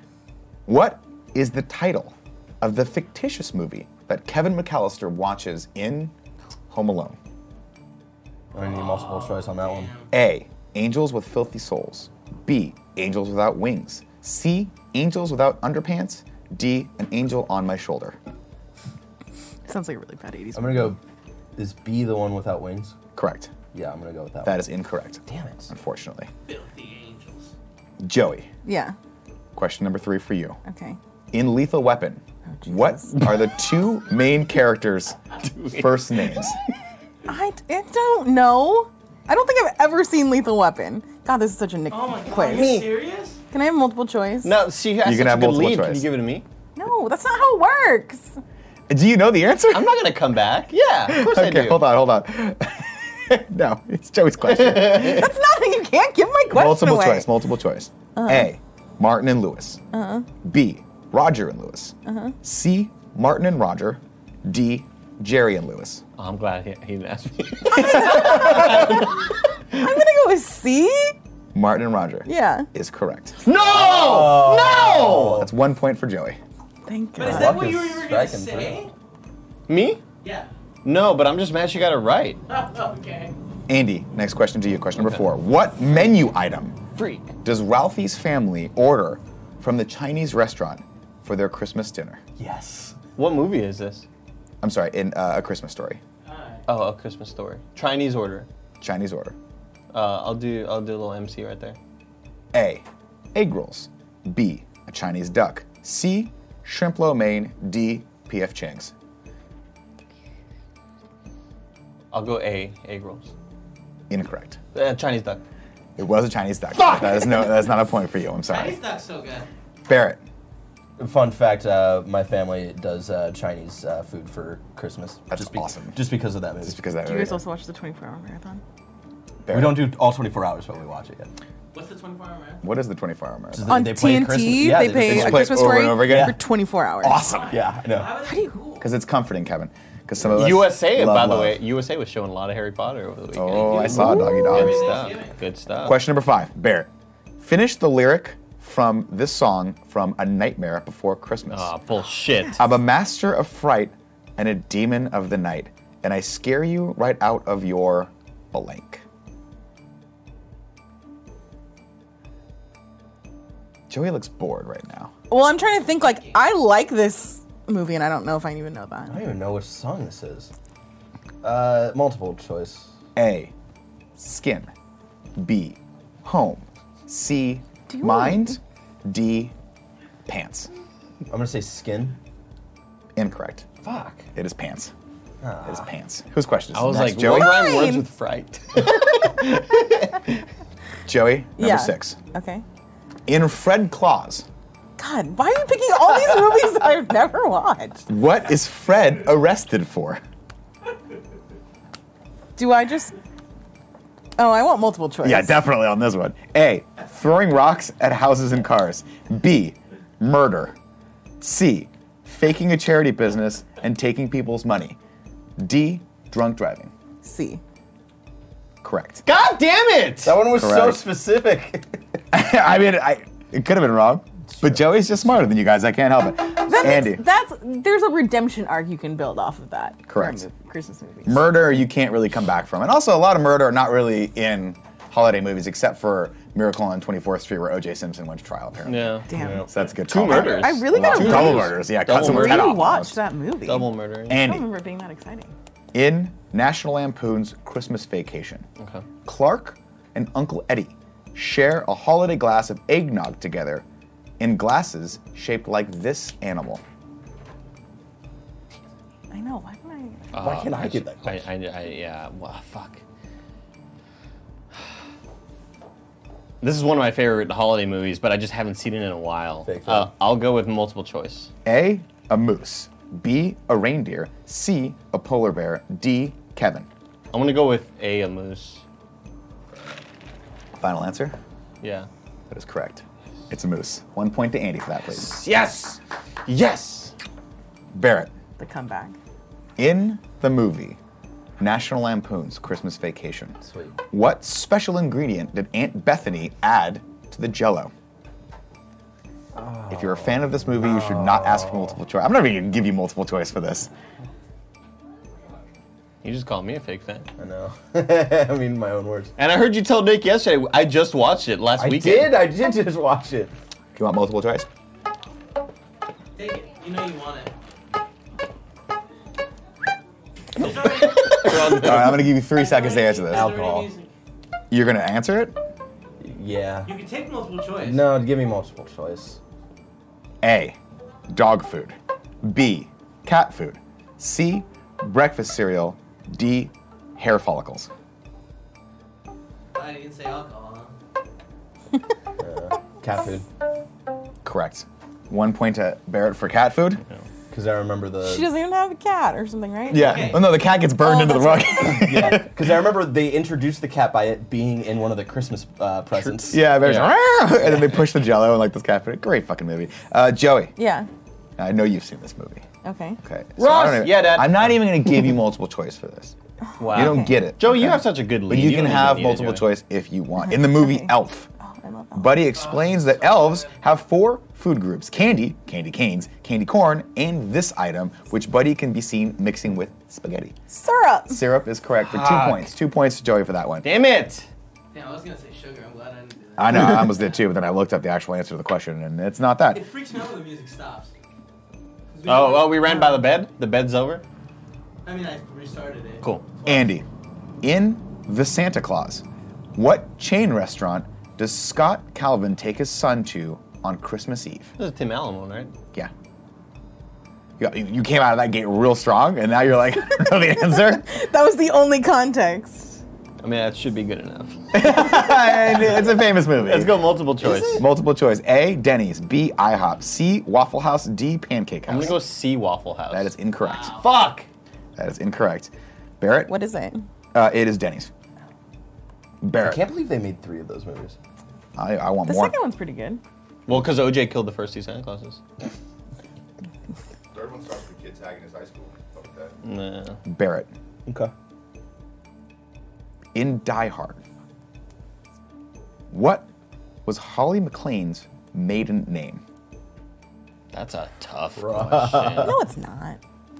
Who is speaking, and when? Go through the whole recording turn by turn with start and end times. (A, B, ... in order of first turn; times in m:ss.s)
0:00.7-0:06.1 A
0:06.7-0:07.2 A
0:08.5-0:09.9 B
0:08.6-0:10.1 C
0:10.1-0:18.2 A
0:19.7-0:20.9 D
0:20.5-0:21.0 B
0:21.6-0:22.9 B
0:23.2-0:23.5 A
0:23.7-0:24.6 B
0:24.4-0:26.3 A
0:25.3-0:25.7 B
0:26.5-0:27.5 C
0:28.0-0:28.5 A
0:28.6-0:28.9 D
0:29.5-0:30.6 A
0:30.6-0:31.0 D
0:31.3-0:36.6 A
0:32.6-0:33.2 D
0:35.5-0:35.9 E
0:37.2-0:42.8 D
0:41.9-0:43.4 C
0:42.5-0:42.8 E
0:43.5-0:44.6 D
0:44.4-0:46.4 E
0:45.0-0:46.0 A
0:46.8-0:48.4 D
0:48.9-0:50.0 A
0:49.7-0:51.8 E
0:51.0-0:55.3 A
0:54.5-0:55.3 E
0:54.8-0:57.3 D
0:56.5-0:59.8 A
0:58.2-0:58.5 D
0:59.9-1:00.3 D
1:00.4-1:06.0 A
1:02.0-1:02.3 D
1:06.2-1:09.2 E
1:07.8-1:08.7 A
1:07.8-1:09.1 D
1:09.8-1:11.1 D
1:11.5-1:13.4 A
1:12.2-1:12.7 D
1:13.4-1:15.4 E
1:13.6-1:15.5 B
1:15.2-1:16.4 A
1:16.8-1:17.6 D
1:17.2-1:18.9 C
1:17.2-1:18.9 B
1:19.7-1:20.0 E
1:20.2-1:20.5 C
1:20.8-1:22.4 E
1:22.5-1:23.3 C
1:23.7-1:26.8 A
1:27.4-1:32.2 A
1:32.4-1:33.0 B
1:33.2-1:34.1 E
1:34.6-1:36.0 A
1:36.2-1:36.6 C
1:36.7-1:38.5 E
1:38.8-1:39.4 A
1:39.9-1:41.8 E
1:42.5-1:48.9 A
1:52.1-1:53.3 E
1:54.1-1:54.6 A
1:54.7-1:55.4 E
1:56.0-1:58.8 A
1:58.5-1:59.5 C
1:59.9-2:00.2 A
2:01.0-2:06.8 B
2:05.3-2:06.1 A
2:06.6-2:07.4 A
2:07.0-2:08.6 D
2:09.4-2:09.9 A
2:09.5-2:11.3 B
2:11.7-2:12.6 C
2:12.6-2:13.7 A
2:13.5-2:16.4 B
2:13.7-2:17.2 D
2:15.0-2:16.4 A
2:17.0-2:17.6 A
2:17.2-2:18.9 C
2:17.5-2:18.2 B
2:18.2-2:18.5 D
2:18.8-2:21.6 A
2:20.3-2:26.0 E
2:23.3-2:25.1 A
2:23.8-2:24.1 B
2:23.9-2:24.7 D
2:24.4-2:25.4 C
2:25.8-2:31.7 A
2:31.5-2:32.6 E
2:32.5-2:39.0 A
2:43.9-2:45.1 A
2:45.3-2:49.2 D
2:45.9-2:46.3 C
2:49.1-2:50.5 B
2:51.4-2:52.9 B
2:53.2-2:53.5 A
2:54.2-2:54.7 A
2:55.4-2:59.5 A
2:57.9-2:58.5 D
3:00.2-3:00.7 A
3:01.3-3:02.2 B
3:03.2-3:03.7 A
3:03.8-3:04.2 E
3:04.3-3:04.9 A
3:05.4-3:05.8 B
3:05.6-3:07.6 A
3:06.7-3:10.4 E
3:07.2-3:08.0 D
3:11.0-3:12.2 A
3:11.6-3:12.6 D
3:13.3-3:14.5 A
3:15.0-3:18.0 D
3:18.1-3:20.2 A
3:22.6-3:23.1 D
3:24.4-3:25.6 D
3:25.2-3:30.8 A
3:31.4-3:35.0 A
3:35.6-3:36.9 A
3:37.2-3:37.6 D
3:38.8-3:39.2 A
3:39.2-3:40.4 E
3:40.2-3:42.0 B
3:40.4-3:41.0 A
3:42.3-3:47.2 A
3:46.7-3:51.5 D
3:50.1-3:50.4 A
3:51.2-4:03.2 A
3:58.8-4:03.0 E
3:59.3-3:59.6 D
3:59.4-3:59.6 B
4:00.2-4:05.5 D
4:03.6-4:04.4 E
4:04.3-4:04.7 A
4:05.9-4:08.6 A
4:08.8-4:09.0 E
4:09.2-4:13.8 A
4:14.4-4:16.8 A
4:19.3-4:20.3 D
4:20.3-4:23.0 E
4:20.4-4:21.4 B
4:26.6-4:31.5 E
4:29.6-4:30.1 B
4:31.6-4:36.9 A
4:37.3-4:38.8 E
4:40.8-4:41.4 A
4:41.8-4:42.1 E
4:42.5-4:45.4 A
4:45.1-4:47.1 E
4:47.9-4:48.3 A
4:48.6-4:49.2 D
4:49.8-4:51.0 A
4:51.6-4:53.6 A
4:53.6-4:54.0 B
4:54.1-4:57.9 A
4:59.5-5:01.9 B
4:59.9-5:03.9 A
5:06.2-5:07.3 E
5:07.4-5:09.3 B
5:09.4-5:12.4 E
5:11.8-5:13.5 B
5:13.9-5:14.7 A
5:16.4-5:17.5 C
5:20.6-5:21.6 C
5:21.3-5:22.3 E
5:21.6-5:23.5 A
5:22.4-5:24.1 C
5:23.3-5:23.9 B
5:24.7-5:25.6 A
5:26.2-5:26.9 B
5:26.8-5:28.0 C
5:27.8-5:29.4 B
5:30.4-5:30.8 A
5:31.3-5:37.9 A
5:39.7-5:40.9 C
5:42.4-5:43.4 B
5:44.4-5:47.0 A
5:47.5-5:48.5 B
5:48.2-5:52.0 D
5:49.9-5:52.7 A
5:49.9-5:50.5 C
5:51.9-5:56.7 B
5:56.1-5:57.1 E
5:56.5-6:00.7 A
5:57.6-5:57.9 B
6:00.8-6:01.1 D
6:01.6-6:02.7 A
6:02.8-6:03.2 D
6:03.2-6:06.3 A
6:03.6-6:04.8 E
6:06.8-6:09.6 E
6:06.9-6:07.2 D
6:06.9-6:11.5 A
6:10.4-6:12.4 D
6:12.1-6:20.6 A
6:12.6-6:13.8 C
6:20.7-6:21.4 D
6:21.3-6:23.8 A
6:22.0-6:22.7 E
6:23.8-6:24.5 E
6:24.9-6:27.2 C
6:26.6-6:29.8 A
6:29.7-6:31.1 C
6:32.1-6:33.2 C
6:32.2-6:34.2 E
6:35.0-6:36.9 C
6:36.6-6:37.0 A
6:37.6-6:39.2 A
6:39.7-6:44.7 A
6:44.8-6:45.7 E
6:47.6-6:51.1 A
6:51.0-6:53.0 D
6:53.4-6:54.7 E
6:54.7-6:57.0 A
6:56.6-6:57.8 E
6:57.4-6:57.8 B
6:57.7-7:02.2 A
7:01.8-7:03.3 E
7:03.1-7:04.0 A
7:03.6-7:04.0 C
7:04.0-7:04.4 E
7:05.0-7:06.5 A
7:06.4-7:07.0 D
7:07.3-7:08.1 A
7:09.4-7:09.8 A
7:09.6-7:11.2 B
7:11.8-7:12.5 A
7:12.2-7:13.2 D
7:13.7-7:15.4 E
7:17.3-7:19.5 F
7:19.6-7:20.2 E
7:20.2-7:20.7 A
7:21.0-7:21.3 B
7:23.3-7:24.2 A
7:26.1-7:26.5 A
7:27.0-7:29.4 A
7:30.7-7:32.6 E
7:31.6-7:32.6 B
7:32.3-7:33.2 D